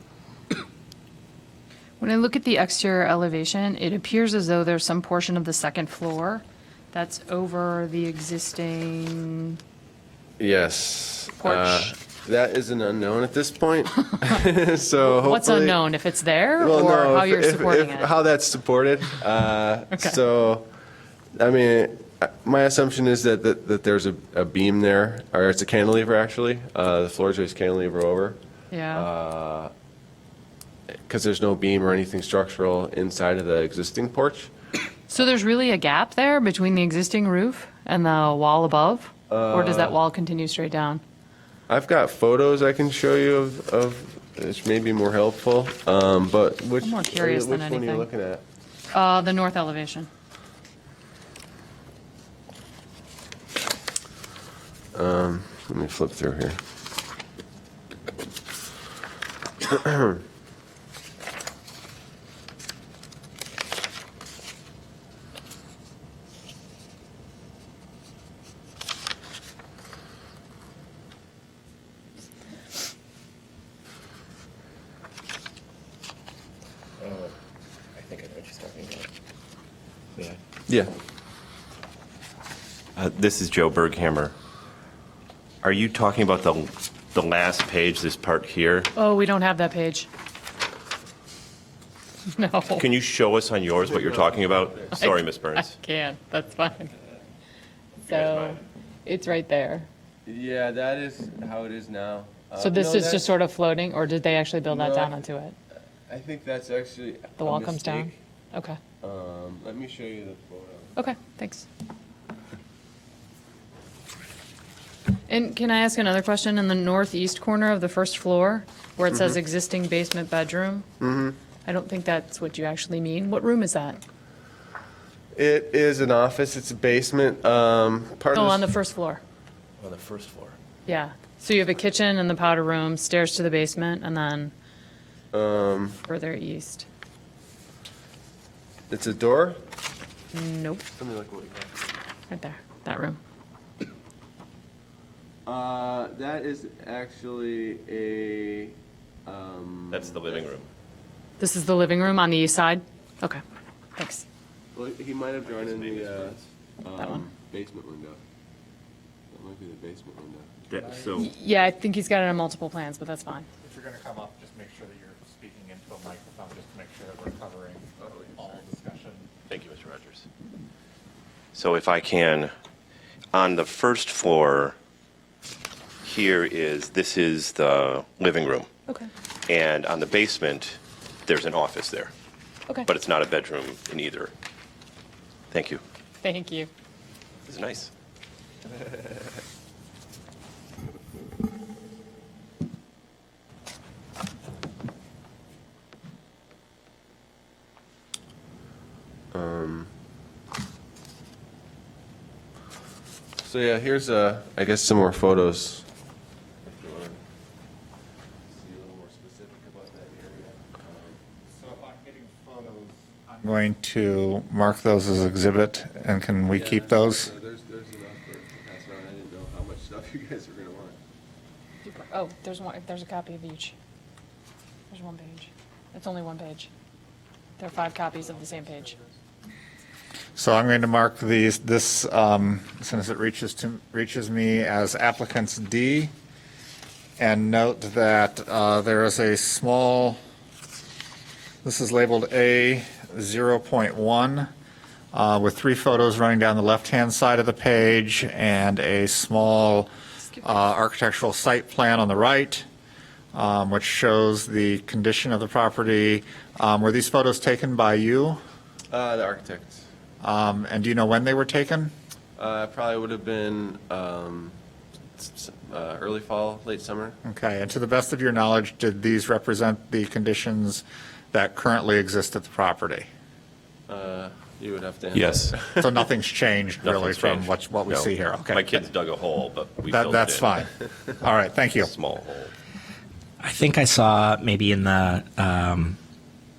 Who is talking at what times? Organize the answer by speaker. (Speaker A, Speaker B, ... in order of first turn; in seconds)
Speaker A: 2.0-9.6, 11.4-11.9, 15.1-18.1, 28.7-29.1, 35.1-41.0, 46.8-48.1, 48.9-50.1, 89.0-90.1, 92.3-92.8, 95.0-96.9, 98.0-99.9, 102.6-105.5, 107.4-108.8, 111.0-111.7, 115.3-120.8, 121.7-124.0, 128.3-129.2, 130.8-134.5, 136.0-136.8, 140.3-140.8, 142.3-143.2, 151.4-153.4, 154.0-154.2, 157.0-157.2, 161.1-163.5, 186.2-186.7, 221.8-223.7, 224.9-226.7, 227.6-228.9
Speaker B: 10.4-15.8, 16.6-20.7, 21.3-28.4, 28.9-29.7, 31.1-34.5, 39.3-40.0, 41.7-48.4, 54.9-56.6, 59.6-60.1, 80.7-80.9, 93.8-95.0, 100.2-103.3, 104.6-105.2, 106.1-108.1, 109.0-111.0, 119.1-119.4, 121.0-121.4, 125.3-128.7, 135.3-136.0, 138.9-139.6, 141.0-141.8, 145.4-150.5, 154.7-158.2, 159.3-160.5, 168.0-168.6, 199.3-199.9, 203.4-205.8, 206.6-207.2, 208.5-211.2, 216.5-221.0, 227.9-229.1, 258.9-259.9, 262.4-264.6, 265.1-267.2, 273.9-276.0
Speaker C: 77.0-77.3, 78.0-79.1, 83.0-84.3, 85.6-88.9, 92.8-95.7, 98.0-98.6, 129.8-130.6, 149.9-150.7, 155.4-156.4, 160.7-161.3, 169.5-170.2, 171.5-172.5, 173.3-174.8, 176.0-178.7, 179.5-182.1, 182.8-184.3, 185.5-185.8, 187.4-187.9, 275.1-275.5, 276.8-280.5, 281.8-282.5
Speaker D: 160.8-161.3, 163.6-169.3, 211.5-217.3, 230.3-236.1, 237.2-240.2, 241.6-244.5, 245.1-252.7, 253.3-258.4, 260.2-261.9, 267.2-273.1, 275.7-278.8, 279.9-281.9
Speaker E: 283.4-286.0